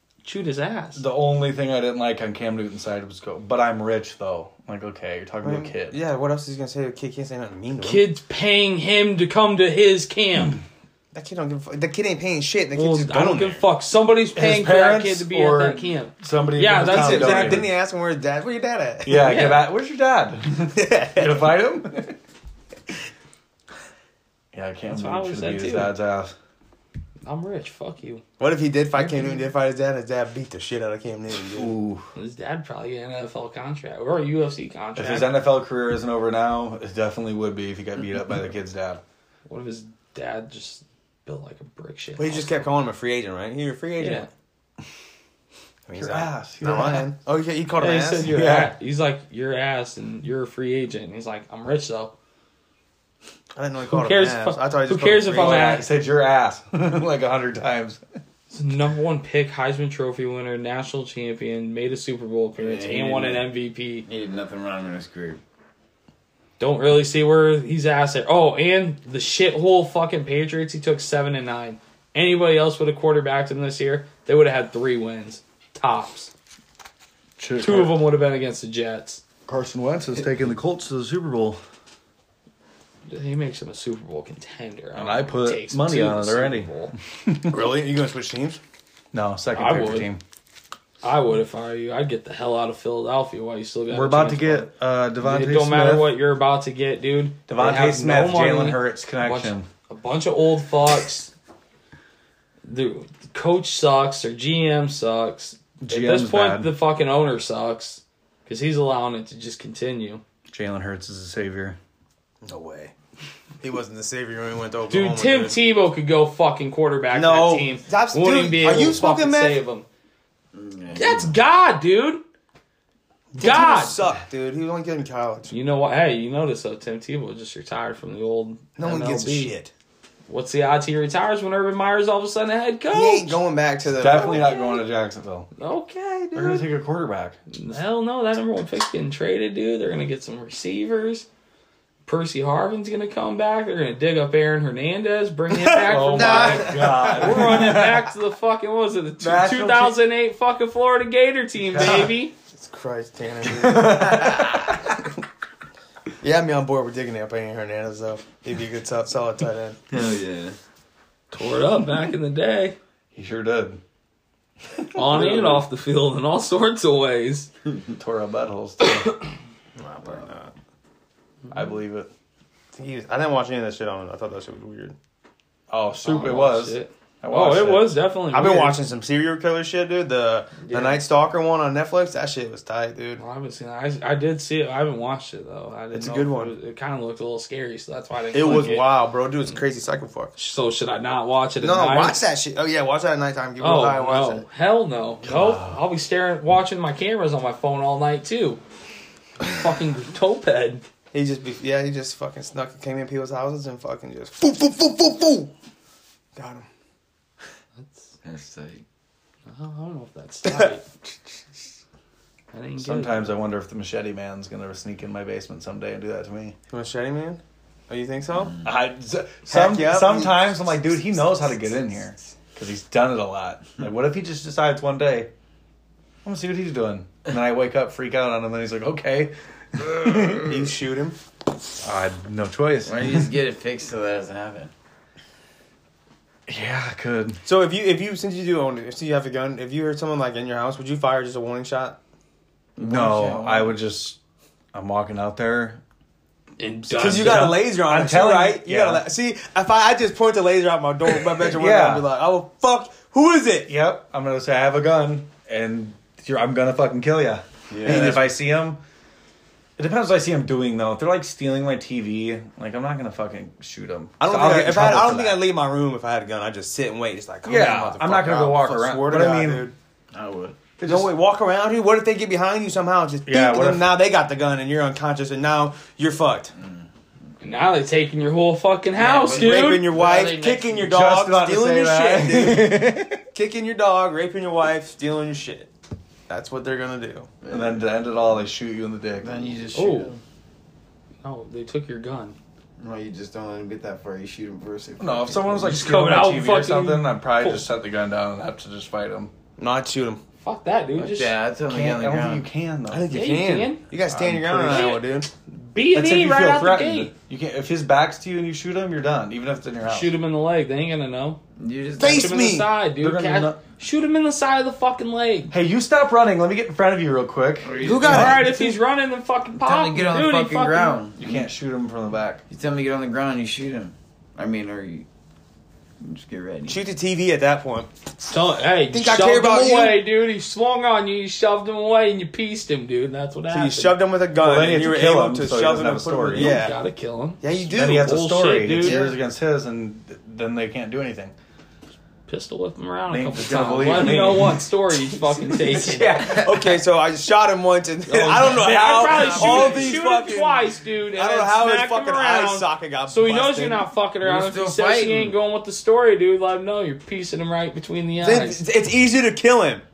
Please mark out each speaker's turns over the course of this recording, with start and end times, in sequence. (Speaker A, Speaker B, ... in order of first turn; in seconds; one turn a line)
Speaker A: 0.2-1.0
Speaker B: 0.9-6.0
Speaker C: 5.4-8.0
Speaker A: 7.8-10.6
Speaker C: 11.1-13.6
Speaker A: 12.7-17.6
Speaker B: 14.3-17.7
Speaker C: 16.8-19.3
Speaker B: 19.0-22.2
Speaker A: 19.2-19.6
Speaker C: 20.7-21.4
Speaker B: 24.5-26.3
Speaker A: 24.9-25.9
Speaker A: 27.2-28.2
Speaker C: 28.4-31.7
Speaker A: 29.0-29.4
Speaker B: 31.5-32.1
Speaker A: 32.1-35.3
Speaker B: 35.0-39.0
Speaker A: 39.5-42.6
Speaker C: 42.2-44.3
Speaker A: 44.0-44.3
Speaker C: 45.9-48.3
Speaker B: 45.9-47.1
Speaker A: 47.8-52.1
Speaker B: 48.2-48.7
Speaker C: 53.5-55.8
Speaker A: 53.9-55.9
Speaker B: 55.3-58.0
Speaker A: 58.5-64.0
Speaker D: 62.6-63.4
Speaker D: 64.1-65.4
Speaker A: 66.6-76.3
Speaker B: 77.4-78.0
Speaker A: 77.6-79.2
Speaker B: 79.5-81.6
Speaker A: 83.1-86.9
Speaker B: 85.0-87.5
Speaker C: 87.5-88.6
Speaker B: 89.1-90.2
Speaker A: 89.5-90.1
Speaker A: 91.0-101.3
Speaker B: 93.9-96.1
Speaker B: 97.5-99.7
Speaker A: 102.6-110.2
Speaker B: 105.8-106.7
Speaker B: 110.5-111.8
Speaker C: 112.4-112.9
Speaker C: 113.6-115.6
Speaker A: 114.9-119.8
Speaker C: 117.1-119.6
Speaker D: 120.5-121.3
Speaker A: 120.9-122.2
Speaker C: 123.3-125.5
Speaker A: 123.4-124.0
Speaker A: 125.5-129.5
Speaker C: 128.8-129.7
Speaker A: 130.3-133.4
Speaker C: 132.9-134.6
Speaker B: 133.9-135.5
Speaker A: 134.1-134.8
Speaker A: 135.6-136.6
Speaker B: 136.3-137.4
Speaker A: 137.5-141.3
Speaker A: 142.1-152.3
Speaker B: 145.7-148.1
Speaker C: 145.9-147.7
Speaker B: 149.2-150.0
Speaker B: 151.7-152.1
Speaker C: 151.8-154.8
Speaker B: 153.4-154.8
Speaker C: 156.2-159.8
Speaker D: 159.9-160.6
Speaker A: 161.3-162.8
Speaker B: 163.1-163.8
Speaker A: 164.9-167.5
Speaker B: 165.1-165.4
Speaker B: 167.9-169.1
Speaker A: 168.8-169.3
Speaker C: 169.8-170.5
Speaker B: 171.5-172.1
Speaker C: 172.7-174.9
Speaker B: 175.7-178.0
Speaker A: 176.0-178.8
Speaker C: 178.3-183.2
Speaker A: 180.6-181.0
Speaker A: 183.2-188.9
Speaker C: 185.9-186.5
Speaker C: 188.3-190.3
Speaker A: 190.3-192.2
Speaker C: 191.6-194.4
Speaker A: 193.6-198.6
Speaker B: 195.2-195.8
Speaker A: 199.4-200.8
Speaker C: 201.1-205.5
Speaker C: 206.3-206.7
Speaker A: 207.8-208.1
Speaker D: 208.2-208.8
Speaker A: 209.4-210.8
Speaker A: 212.5-213.3
Speaker B: 212.8-216.6
Speaker C: 216.7-218.6
Speaker B: 218.6-225.3
Speaker C: 219.5-220.6
Speaker B: 226.2-230.7
Speaker C: 230.4-231.2
Speaker B: 231.8-233.3
Speaker D: 232.8-234.7
Speaker B: 236.5-237.4
Speaker C: 237.4-242.0
Speaker D: 242.8-243.8
Speaker B: 242.8-244.2
Speaker B: 244.7-245.8
Speaker A: 246.6-247.5
Speaker B: 246.8-249.0
Speaker C: 247.0-253.7
Speaker B: 251.4-252.1
Speaker B: 253.7-258.8
Speaker D: 257.7-258.2
Speaker C: 257.8-258.3
Speaker B: 259.8-265.4
Speaker C: 264.2-269.7
Speaker B: 267.4-269.7
Speaker D: 270.1-270.6
Speaker B: 270.8-271.1
Speaker C: 270.8-276.5
Speaker B: 273.2-273.9
Speaker D: 276.6-276.9
Speaker A: 277.4-280.1
Speaker C: 279.0-285.7
Speaker D: 279.0-280.7
Speaker B: 280.8-283.2
Speaker C: 286.3-287.3
Speaker D: 287.4-287.9
Speaker B: 287.5-289.5
Speaker D: 289.2-290.2
Speaker A: 289.7-290.1
Speaker A: 291.2-292.4
Speaker D: 292.8-295.7
Speaker B: 295.0-299.3
Speaker A: 295.6-297.6
Speaker C: 299.6-300.2
Speaker A: 300.4-301.3
Speaker D: 300.9-302.4
Speaker B: 301.7-303.2
Speaker C: 302.9-305.3
Speaker A: 303.1-303.8
Speaker B: 304.1-304.9
Speaker A: 304.7-307.1
Speaker B: 305.9-310.1
Speaker A: 309.8-311.4
Speaker D: 311.6-312.4
Speaker C: 312.0-312.7
Speaker A: 312.0-315.5
Speaker B: 313.0-313.6
Speaker B: 315.5-318.5
Speaker D: 317.6-318.5
Speaker C: 317.8-318.6
Speaker A: 318.0-321.0
Speaker D: 319.6-321.5
Speaker B: 321.2-322.4
Speaker D: 322.5-325.1
Speaker D: 326.0-326.8
Speaker C: 326.7-327.9
Speaker A: 328.3-334.0
Speaker C: 328.9-330.0
Speaker C: 333.5-336.8
Speaker B: 334.4-336.6
Speaker A: 336.3-339.1
Speaker C: 337.4-338.1
Speaker B: 337.7-341.3
Speaker C: 338.8-339.1
Speaker A: 342.3-346.3
Speaker B: 343.1-344.7
Speaker D: 345.6-346.8
Speaker C: 345.9-353.9
Speaker A: 348.1-358.6
Speaker D: 348.4-350.0
Speaker D: 354.2-355.4
Speaker C: 358.2-359.8